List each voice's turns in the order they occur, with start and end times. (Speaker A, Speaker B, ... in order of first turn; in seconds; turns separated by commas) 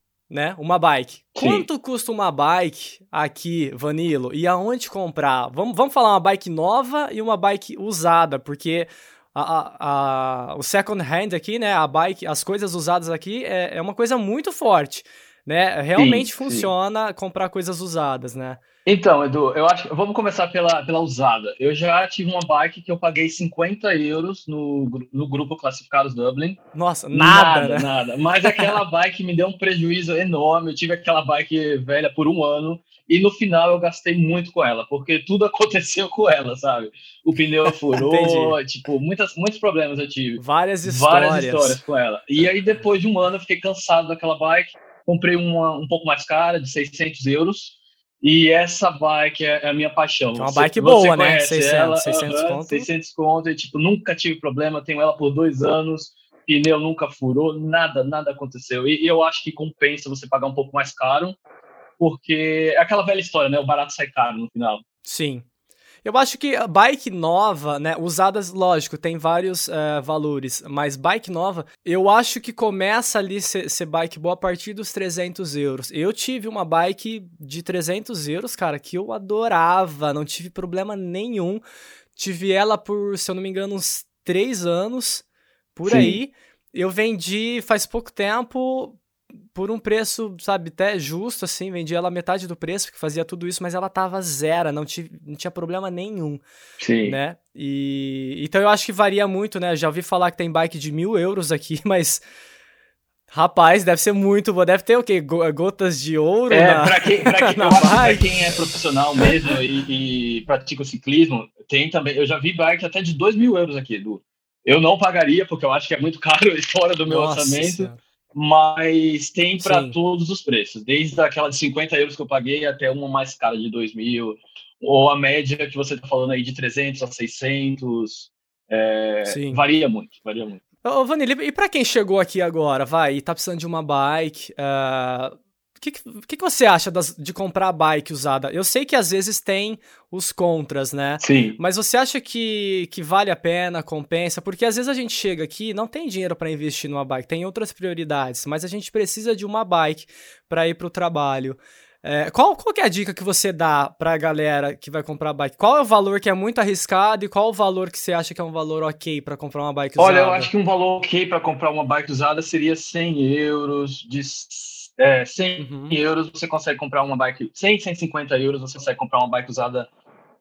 Speaker A: 0.3-18.6, Speaker B: 1.4-1.7, Speaker B: 16.0-16.7, Speaker B: 18.9-26.6, Speaker A: 26.7-27.9, Speaker B: 27.1-61.4, Speaker A: 28.4-28.8, Speaker A: 38.0-38.6, Speaker A: 40.4-41.8, Speaker A: 50.4-52.9, Speaker B: 62.0-64.8, Speaker A: 65.0-65.4, Speaker A: 66.0-81.6, Speaker A: 82.2-85.2, Speaker A: 85.8-89.0, Speaker B: 85.8-86.2, Speaker A: 89.5-96.4, Speaker B: 96.8-97.2, Speaker A: 97.0-102.2, Speaker A: 103.3-108.6, Speaker B: 106.5-130.6, Speaker A: 117.1-118.0, Speaker A: 119.6-120.0, Speaker A: 129.3-129.6, Speaker A: 130.8-160.5, Speaker B: 141.2-141.6, Speaker B: 160.0-169.9, Speaker A: 165.6-166.0